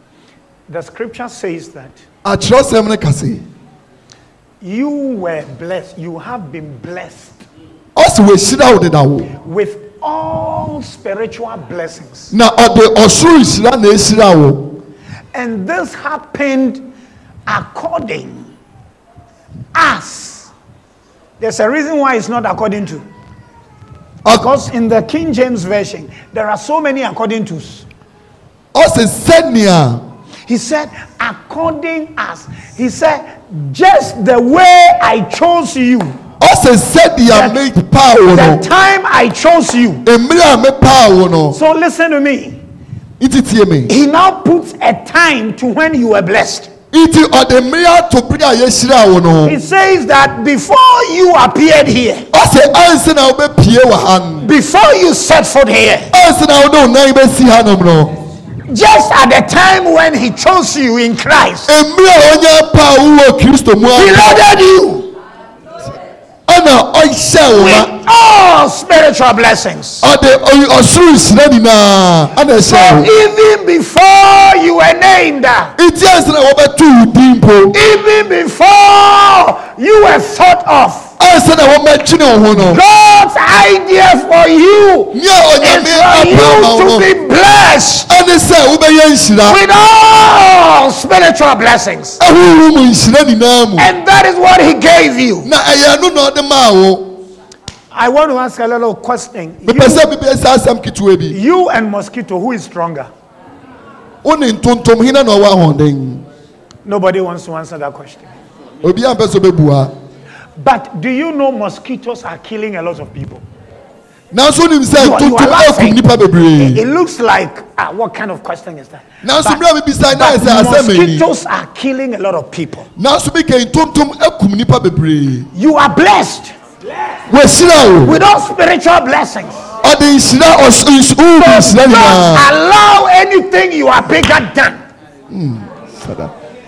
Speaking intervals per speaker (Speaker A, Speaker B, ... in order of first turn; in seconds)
Speaker A: 0.7-2.0, 4.6-7.4, 9.4-12.3, 15.3-16.9, 17.5-18.5, 19.7-20.5, 21.4-23.1, 24.3-27.9, 30.5-36.2, 37.3-37.6, 38.3-40.0, 41.5-42.6, 43.9-46.7, 49.4-52.3, 54.4-56.1, 58.7-61.7, 63.9-65.1, 67.5-70.1, 72.6-75.7, 77.7-81.1, 82.5-88.1, 89.5-92.2, 93.8-95.5, 97.9-100.0, 101.3-103.1, 106.8-108.3, 110.5-113.4, 115.0-116.0, 116.6-119.6, 120.1-122.9, 125.5-126.5, 128.0-129.6, 131.4-134.8
Speaker B: 2.2-3.4, 7.9-9.3, 12.3-14.8, 28.7-30.0, 36.4-38.6, 40.0-41.6, 43.2-43.9, 46.9-49.6, 52.3-54.5, 56.1-58.1, 61.7-64.4, 66.5-67.9, 70.0-73.1, 75.8-77.8, 81.2-82.8, 85.1-87.1, 88.1-89.6, 92.2-93.9, 95.4-97.2, 99.7-101.4, 104.2-106.2, 108.8-109.9, 114.3-116.8, 119.2-121.2, 123.0-125.5, 127.3-128.2, 129.8-132.4, 135.3-136.3